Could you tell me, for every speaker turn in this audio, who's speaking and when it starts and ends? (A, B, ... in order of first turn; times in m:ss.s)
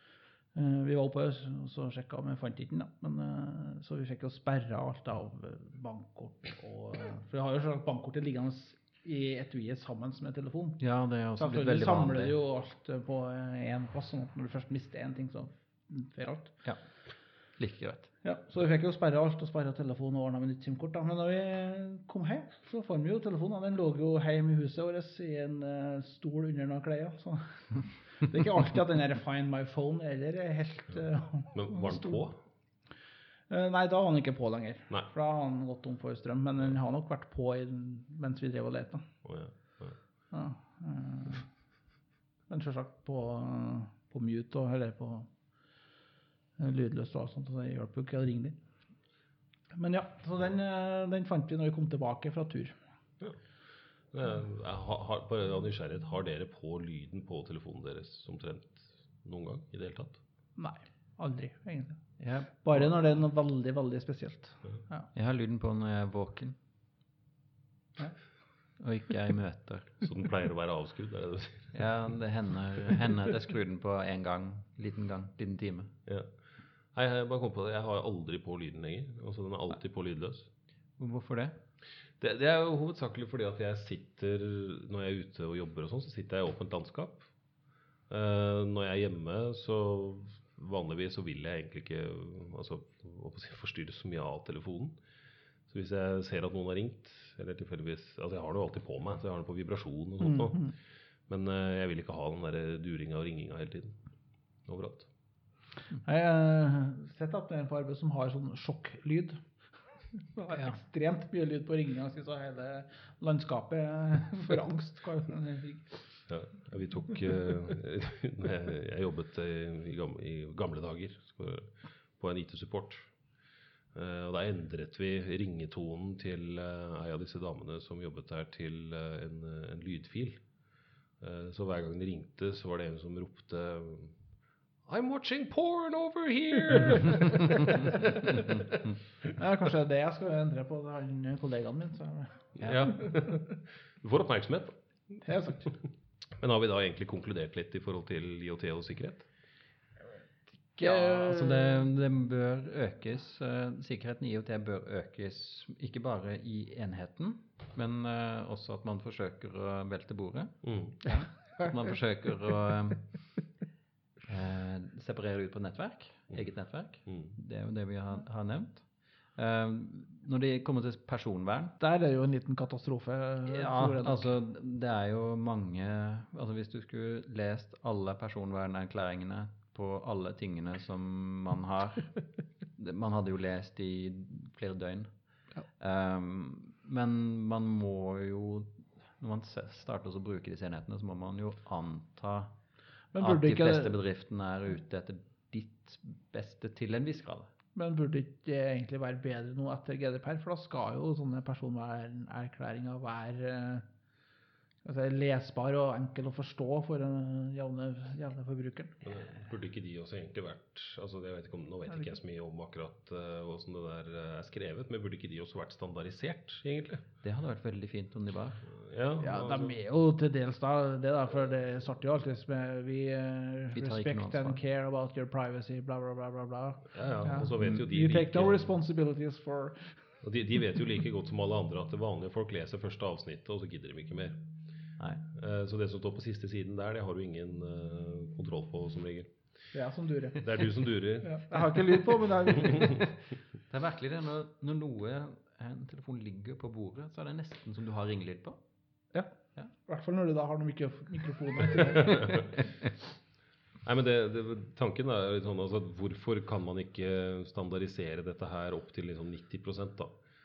0:00.6-0:10.8 A
0:10.8-0:12.4 B
0:11.4-0:16.6 A
0:17.6-0:18.1 B
0:18.2-0:32.2 A
0:31.5-0:32.4 C
0:33.5-0:39.1 A
0:39.2-0:40.0 C
0:40.3-0:41.5 A
0:42.5-0:45.3 A
0:46.6-0:48.6 A
0:49.7-0:52.8 A
0:54.1-1:00.2 C
1:00.6-1:02.0 A
1:02.2-1:02.5 B
1:02.6-1:05.1 A
1:05.1-1:06.6 B
1:08.8-1:10.0 B
1:10.0-1:11.9 C
1:11.7-1:15.9 B
1:16.9-1:20.5 C
1:21.0-1:21.6 B
1:22.2-1:27.3 C
1:28.1-1:35.0 C
1:35.7-1:40.7 C
1:40.2-1:40.7 A
1:41.3-1:44.0 C
1:44.7-1:45.1 C
1:46.0-1:49.4 A
1:50.2-1:56.0 A
1:50.5-1:50.8 B
1:56.3-2:03.1 C
2:03.9-2:10.4 C
2:11.2-2:14.2 C
2:14.9-2:18.6 C
2:19.4-2:23.0 A
2:22.6-2:25.2 C
2:22.6-2:22.9 B
2:25.2-2:25.7 A
2:26.4-2:29.3 C
2:30.8-2:31.8 A
2:30.8-2:43.1 B
2:40.6-2:41.0 C
2:44.3-2:51.8 B
2:47.1-2:47.3 C
2:51.8-2:54.4 A
2:53.5-3:02.2 B
3:02.8-3:05.1 B
3:05.8-3:12.6 B
3:13.1-3:14.0 A
3:13.2-3:17.5 B
3:17.8-3:23.9 A
3:24.8-3:29.0 A
3:29.0-3:37.0 C
3:37.2-3:38.6 B
3:38.7-3:39.8 C
3:39.2-3:50.0 A
3:43.7-3:44.6 B
3:46.9-3:48.7 C
3:50.2-3:54.4 C
3:55.0-3:55.2 B
3:55.4-3:59.3 C
3:59.7-4:00.7 A
4:00.4-4:02.1 C
4:01.2-4:03.1 A
4:02.6-4:03.0 C
4:03.7-4:08.6 B
4:09.9-4:12.5 A
4:11.8-4:12.5 C
4:13.8-4:20.1 C